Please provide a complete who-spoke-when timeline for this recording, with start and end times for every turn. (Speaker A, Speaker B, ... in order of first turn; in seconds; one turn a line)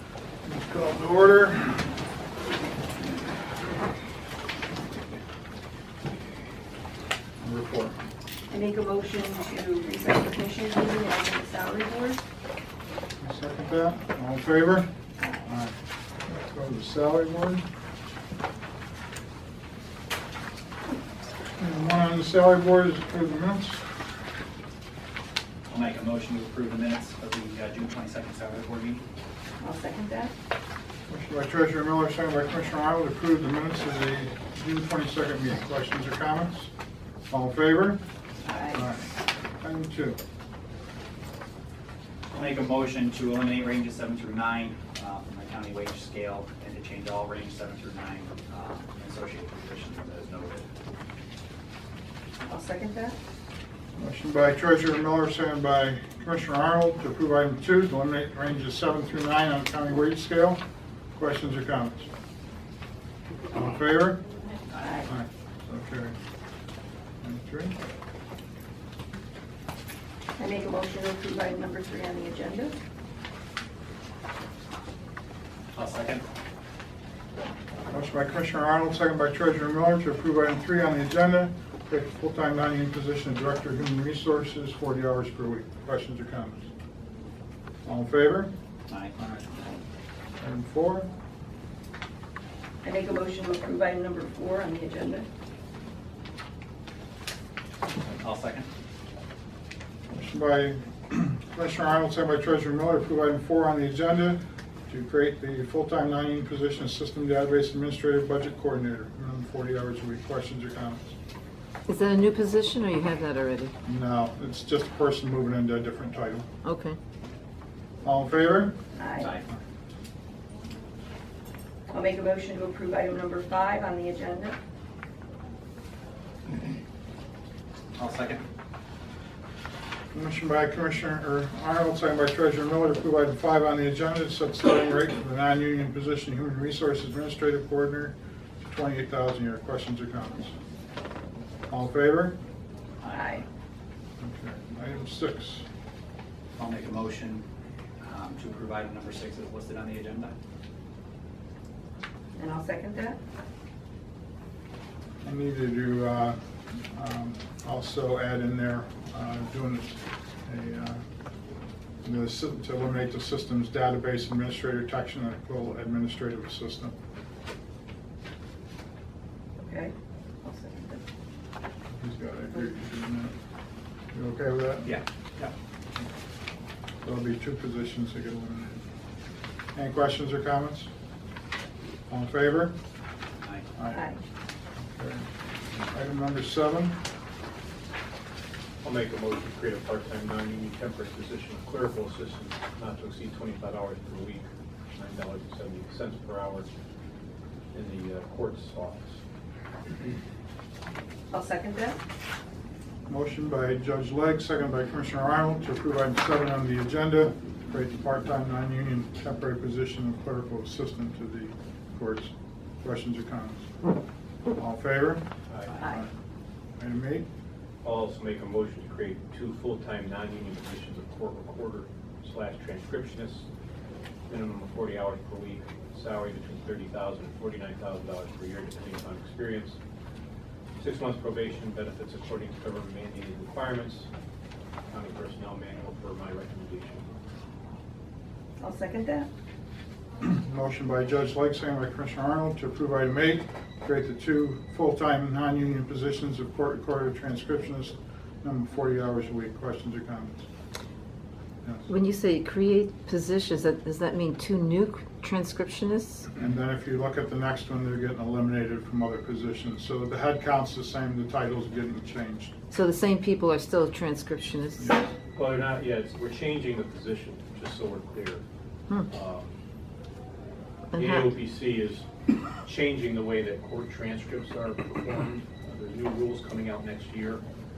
Speaker A: 0.5-1.9
Speaker A: 7.4-8.0
Speaker B: 8.5-12.2
Speaker A: 13.2-14.9
Speaker A: 15.4-15.7
Speaker A: 16.3-17.6
Speaker A: 21.6-23.8
Speaker C: 25.7-29.1
Speaker B: 29.6-30.3
Speaker A: 31.1-36.7
Speaker A: 37.3-38.0
Speaker B: 38.5-38.8
Speaker A: 38.7-39.1
Speaker A: 39.6-40.2
Speaker C: 42.3-50.7
Speaker B: 52.5-53.2
Speaker A: 54.0-60.6
Speaker A: 61.1-62.1
Speaker A: 63.5-64.2
Speaker B: 64.7-65.1
Speaker A: 65.0-66.2
Speaker A: 67.2-67.8
Speaker B: 70.4-72.8
Speaker C: 75.7-76.2
Speaker A: 77.9-86.7
Speaker A: 87.8-88.5
Speaker C: 88.9-89.2
Speaker A: 89.2-89.6
Speaker A: 90.4-91.1
Speaker B: 92.8-95.3
Speaker C: 98.0-98.7
Speaker A: 100.1-111.2
Speaker D: 111.9-113.7
Speaker A: 113.8-116.5
Speaker D: 116.6-117.0
Speaker A: 118.0-118.8
Speaker B: 119.0-119.3
Speaker C: 119.2-119.5
Speaker B: 121.9-124.6
Speaker C: 128.0-128.4
Speaker A: 130.1-138.2
Speaker A: 138.7-140.6
Speaker A: 141.7-142.4
Speaker C: 143.0-143.4
Speaker B: 143.1-143.4
Speaker A: 144.2-145.7
Speaker C: 146.6-147.4
Speaker C: 148.0-150.3
Speaker B: 152.4-153.2
Speaker A: 155.2-161.0
Speaker A: 162.0-166.9
Speaker B: 169.6-171.0
Speaker A: 171.9-173.3
Speaker A: 174.1-175.0
Speaker C: 174.8-175.5
Speaker A: 177.0-178.8
Speaker A: 179.8-180.9
Speaker A: 182.1-182.8
Speaker A: 183.8-184.1
Speaker B: 183.9-184.2
Speaker A: 184.9-187.0
Speaker E: 188.8-196.7
Speaker E: 197.7-199.2
Speaker B: 201.3-202.0
Speaker A: 203.1-213.7
Speaker A: 214.6-215.2
Speaker E: 215.5-215.8
Speaker A: 215.8-216.1
Speaker A: 216.8-217.3
Speaker E: 217.8-223.5
Speaker E: 224.3-229.8
Speaker E: 230.8-234.1
Speaker E: 234.9-237.1
Speaker B: 238.6-239.3
Speaker A: 240.2-250.4
Speaker D: 251.9-256.3
Speaker A: 256.4-262.5
Speaker D: 262.7-265.0
Speaker E: 265.4-268.4
Speaker E: 269.1-269.5
Speaker D: 270.9-271.4
Speaker E: 270.9-272.1
Speaker E: 272.6-277.4